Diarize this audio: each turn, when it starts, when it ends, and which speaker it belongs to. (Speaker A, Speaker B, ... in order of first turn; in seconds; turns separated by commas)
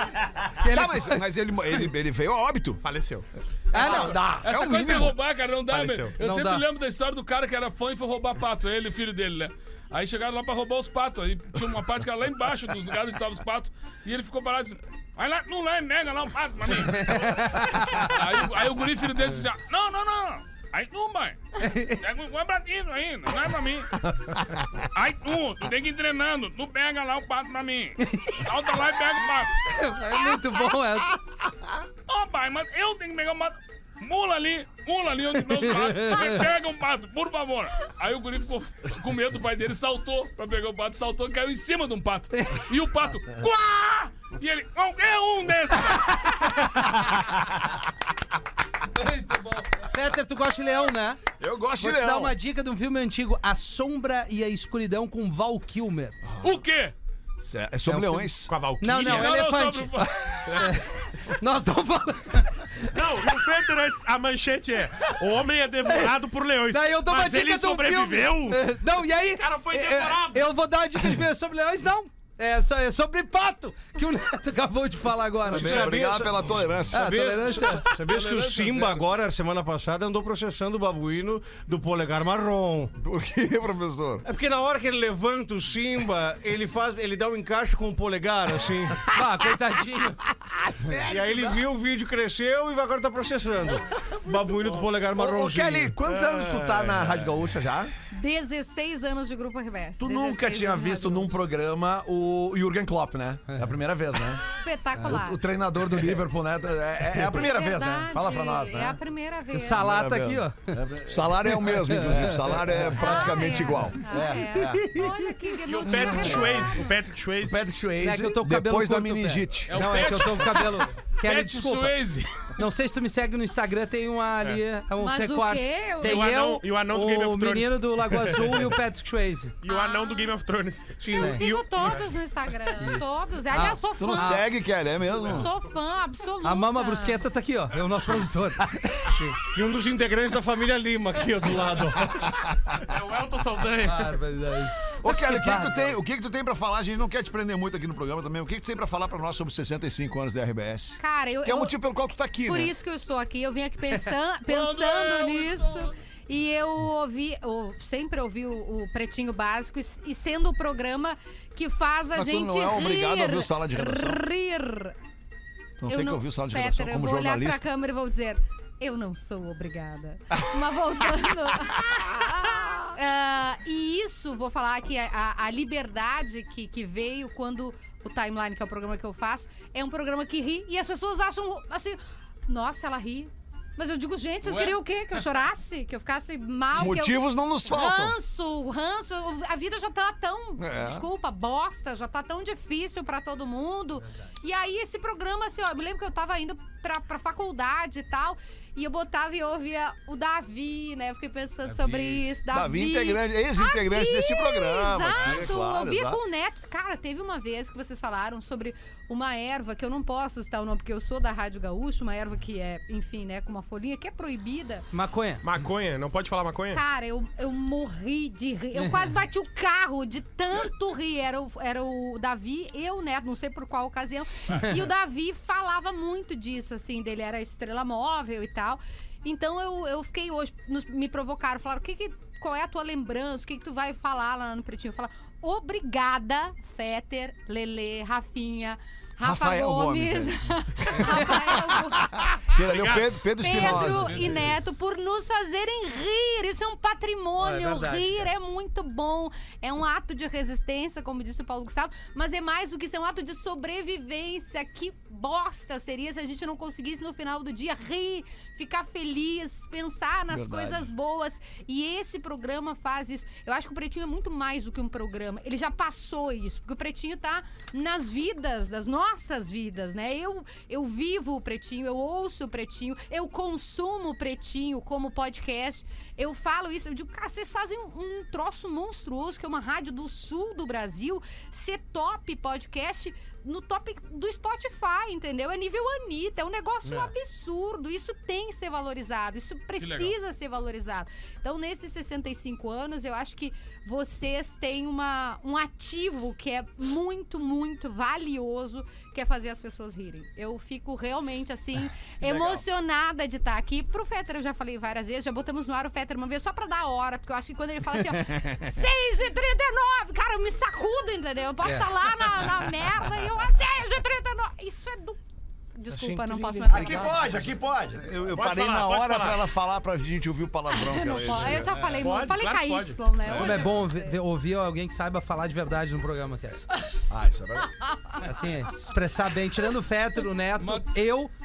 Speaker A: 0.6-1.2, Speaker B: 0.6-2.8, Speaker C: 2.8-3.2, Speaker A: 3.7-4.2, Speaker D: 3.7-4.5, Speaker E: 3.7-24.1, Speaker B: 4.4-5.2, Speaker C: 5.7-6.2, Speaker A: 6.2-6.6, Speaker A: 16.9-18.1, Speaker A: 21.6-22.0, Speaker E: 24.9-29.6, Speaker A: 28.0-28.4, Speaker A: 29.7-31.2, Speaker E: 32.1-46.6, Speaker A: 35.4-36.4, Speaker A: 42.3-42.6, Speaker A: 48.9-51.2, Speaker B: 51.4-52.4, Speaker A: 51.8-56.2, Speaker E: 56.4-56.9, Speaker B: 57.4-58.5, Speaker A: 57.9-60.0, Speaker C: 58.5-59.4, Speaker E: 59.0-60.3, Speaker C: 60.5-60.7, Speaker A: 60.6-63.0, Speaker C: 62.8-68.7, Speaker A: 65.8-66.1, Speaker A: 66.7-76.0, Speaker C: 69.3-70.5, Speaker F: 75.5-82.9, Speaker B: 75.5-77.1, Speaker A: 76.9-77.8, Speaker E: 77.9-79.1, Speaker B: 83.0-84.2, Speaker F: 84.2-89.0, Speaker A: 89.0-90.2, Speaker B: 90.7-91.3, Speaker F: 91.0-95.9, Speaker D: 95.2-97.9, Speaker B: 96.4-97.1, Speaker G: 98.1-101.4, Speaker D: 100.0-104.4, Speaker G: 104.5-105.4, Speaker D: 105.0-109.0, Speaker G: 107.2-109.9, Speaker A: 109.5-110.7, Speaker B: 109.8-110.4, Speaker D: 110.7-113.4, Speaker B: 111.0-114.0, Speaker A: 111.7-112.5, Speaker G: 113.0-116.9, Speaker D: 114.0-114.9, Speaker C: 115.7-117.6, Speaker D: 117.4-118.4, Speaker A: 118.0-122.0, Speaker B: 118.4-119.8, Speaker E: 119.7-122.5, Speaker A: 122.6-129.5, Speaker G: 125.0-126.3, Speaker C: 126.0-128.7, Speaker C: 129.6-131.1, Speaker G: 129.7-130.4, Speaker F: 131.0-131.6, Speaker G: 131.1-134.4, Speaker A: 132.8-134.4, Speaker B: 134.0-135.5, Speaker G: 135.1-137.2, Speaker A: 136.4-139.1, Speaker F: 139.1-142.1, Speaker C: 142.8-144.2, Speaker A: 143.8-145.9, Speaker B: 145.0-152.7, Speaker G: 151.0-151.7, Speaker G: 152.4-164.9, Speaker E: 154.5-155.9, Speaker B: 162.1-164.2, Speaker B: 165.8-167.6, Speaker G: 165.9-214.9, Speaker B: 172.2-172.7, Speaker E: 184.4-184.8, Speaker B: 186.8-188.2, Speaker B: 190.6-191.0, Speaker B: 202.5-206.2, Speaker E: 205.2-205.5, Speaker A: 214.9-215.4, Speaker C: 215.4-216.8, Speaker G: 216.7-242.5, Speaker A: 218.8-219.1, Speaker B: 239.2-244.4, Speaker C: 242.6-243.2, Speaker G: 243.4-315.2, Speaker E: 243.5-244.5, Speaker A: 247.4-248.3, Speaker B: 260.3-260.9, Speaker A: 286.9-287.1, Speaker E: 289.8-290.1, Speaker A: 311.6-311.9, Speaker G: 315.7-317.2, Speaker F: 315.9-317.1, Speaker D: 316.7-318.1, Speaker B: 318.0-321.7, Speaker C: 318.3-319.4, Speaker G: 320.7-324.2, Speaker C: 321.9-323.1, Speaker A: 323.3-326.6, Speaker D: 327.1-327.7, Speaker A: 328.2-331.3, Speaker E: 330.6-330.9